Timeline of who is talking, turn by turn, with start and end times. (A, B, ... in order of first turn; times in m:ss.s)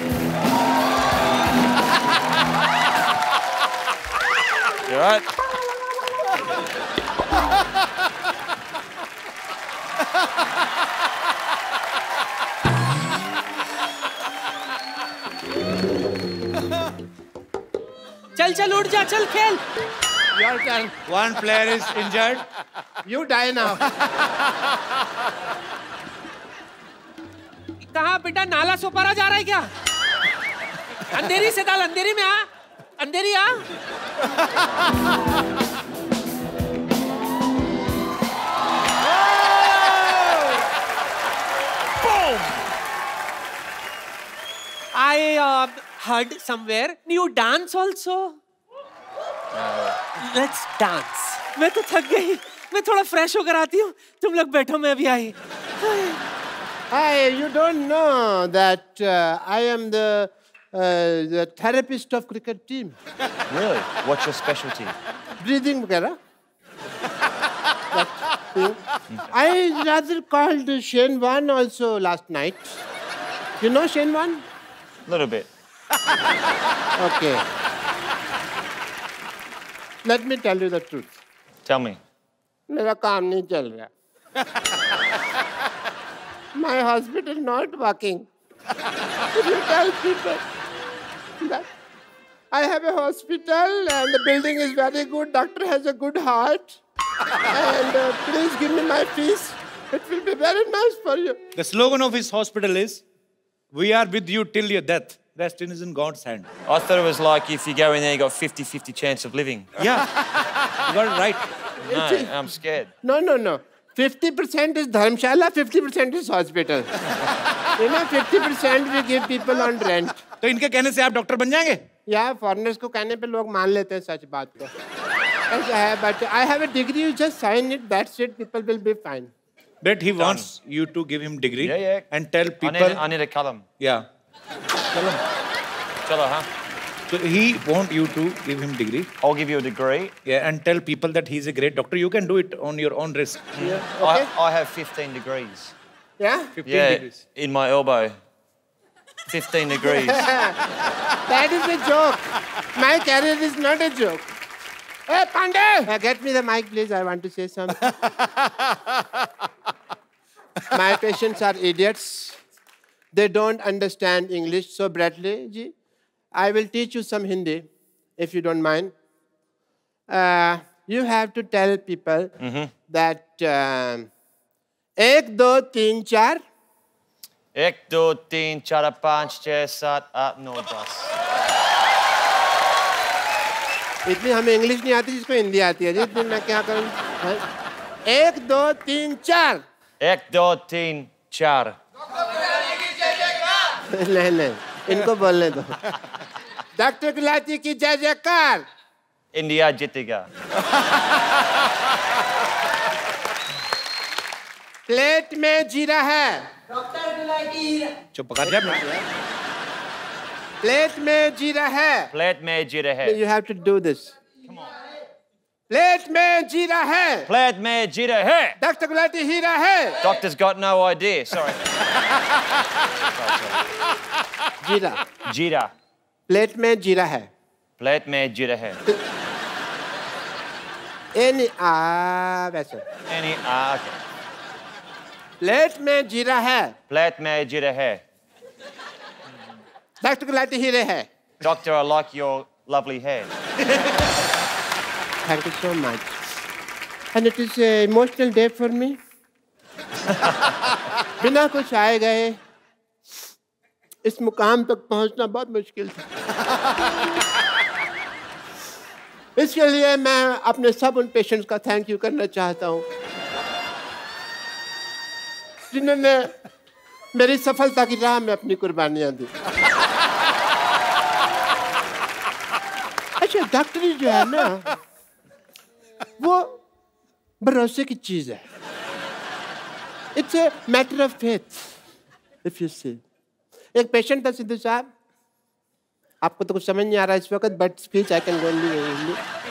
0:04.9-0:05.2 A
0:18.4-0:19.6 B
0:20.3-0:20.9 C
0:21.1-0:22.5 D
0:23.0-0:23.8 C
0:27.8-0:29.7 B
0:31.1-0:32.5 B
0:33.0-0:33.5 B
0:45.0-0:48.4 B
0:49.5-0:50.0 A
0:50.2-0:56.2 B
0:56.9-1:03.0 C
1:03.5-1:05.0 A
1:05.4-1:06.2 C
1:07.9-1:12.8 C
1:13.6-1:14.4 C
1:15.1-1:15.5 A
1:17.0-1:17.4 C
1:20.0-1:21.1 C
1:21.7-1:22.0 A
1:22.7-1:23.9 C
1:26.6-1:28.3 C
1:29.3-1:30.4 C
1:31.4-1:31.7 C
1:32.5-1:36.8 C
1:37.4-1:41.4 C
1:41.6-1:43.0 D
1:43.7-1:46.5 D
1:46.7-1:49.8 A
1:49.8-1:50.1 D
1:50.9-1:51.5 D
1:51.8-1:52.3 C
1:51.9-1:52.9 A
1:53.0-1:56.9 C
1:57.8-2:00.2 C
2:00.4-2:01.8 D
2:02.1-2:04.7 C
2:05.5-2:09.3 C
2:09.8-2:13.0 D
2:10.2-2:10.5 A
2:11.6-2:12.1 A
2:12.6-2:13.7 A
2:14.9-2:15.2 D
2:16.0-2:16.5 A
2:17.1-2:19.1 D
2:19.2-2:20.1 A
2:20.3-2:23.5 D
2:23.6-2:25.8 A
2:23.6-2:24.3 C
2:26.2-2:26.6 C
2:26.6-2:27.2 D
2:26.6-2:28.1 A
2:29.3-2:30.2 A
2:29.8-2:30.6 C
2:31.3-2:34.3 C
2:35.1-2:37.9 C
2:40.7-2:42.4 C
2:43.1-2:45.7 C
2:46.3-2:47.7 C
2:48.2-2:48.9 C
2:50.1-2:52.3 C
2:52.4-2:52.7 A
2:52.9-2:54.1 C
2:55.0-2:56.4 C
2:57.6-3:01.1 A
3:04.1-3:07.4 C
3:08.1-3:09.6 C
3:10.0-3:11.8 A
3:13.9-3:15.8 C
3:16.8-3:18.6 C
3:19.3-3:20.3 A
3:24.9-3:26.5 C
3:28.1-3:28.8 D
3:28.4-3:29.1 C
3:30.6-3:32.1 C
3:32.1-3:33.2 A
3:33.0-3:34.2 C
3:34.5-3:34.7 A
3:35.7-3:37.3 C
3:37.3-3:38.6 A
3:38.6-3:40.0 C
3:40.0-3:41.6 A
3:43.1-3:43.7 A
3:44.6-3:45.0 C
3:45.2-3:45.7 A
3:46.3-3:47.3 C
3:47.8-3:48.8 A
3:51.1-3:52.8 C
3:53.1-3:54.0 A
3:55.4-3:56.8 C
3:56.9-3:58.0 A
4:00.0-4:01.1 C
4:01.4-4:03.3 A
4:05.2-4:06.2 C
4:07.1-4:09.0 C
4:10.2-4:10.5 A
4:11.2-4:12.4 C
4:14.0-4:16.0 C
4:19.4-4:22.9 C
4:25.7-4:26.3 C
4:27.1-4:29.3 C
4:33.2-4:34.7 C
4:36.2-4:36.6 C
4:37.4-4:38.4 C
4:40.2-4:41.6 C
4:42.4-4:43.0 C
4:43.8-4:44.9 C
4:46.2-4:49.2 C